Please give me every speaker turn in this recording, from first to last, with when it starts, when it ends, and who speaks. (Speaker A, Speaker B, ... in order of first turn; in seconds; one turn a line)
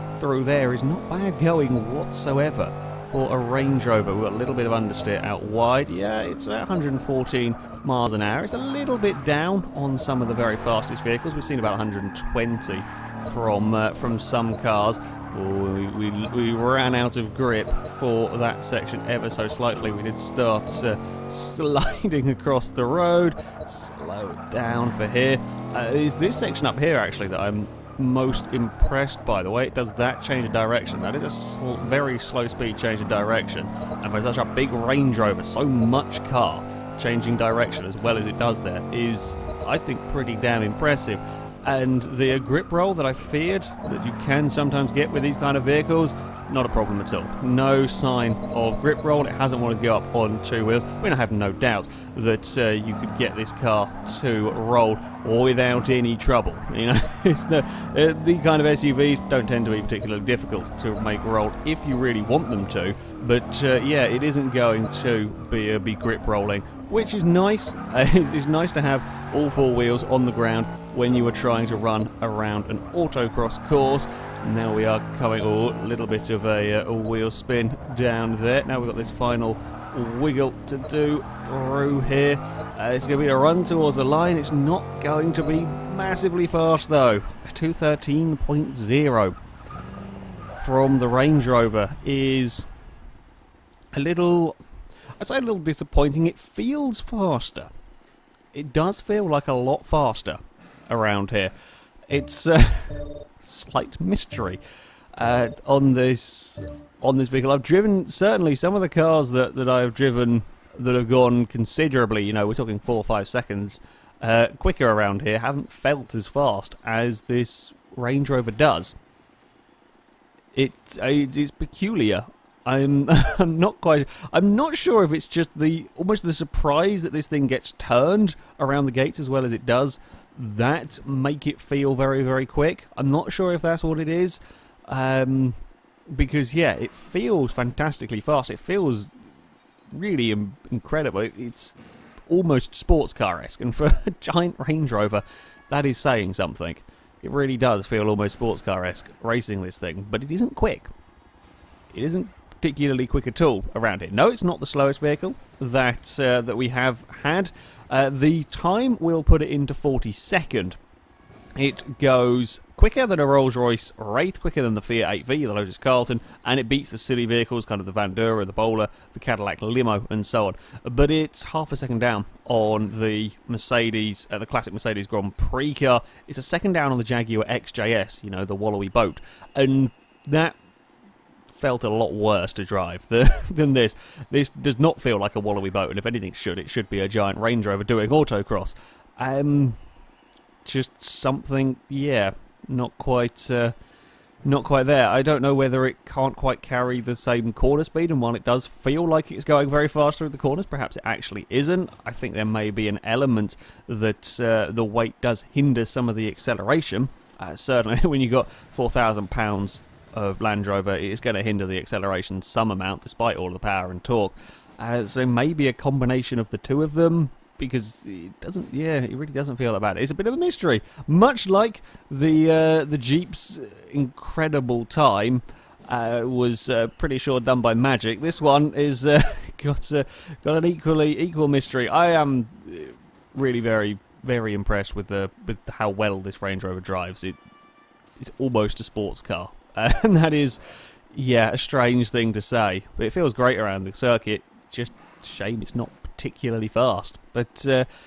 Speaker A: 0.2-89.4
Speaker A: 90.5-92.7
Speaker A: 93.9-94.6
Speaker A: 95.2-97.7
Speaker A: 98.5-101.5
Speaker A: 102.1-104.6
Speaker A: 105.2-119.0
Speaker A: 120.5-135.6
Speaker A: 136.1-139.1
Speaker A: 139.9-141.8
Speaker A: 142.3-150.9
Speaker A: 151.9-160.8
Speaker A: 161.6-180.6
Speaker A: 181.5-189.8
Speaker A: 190.6-193.8
Speaker A: 194.4-237.4
Speaker A: 238.2-247.9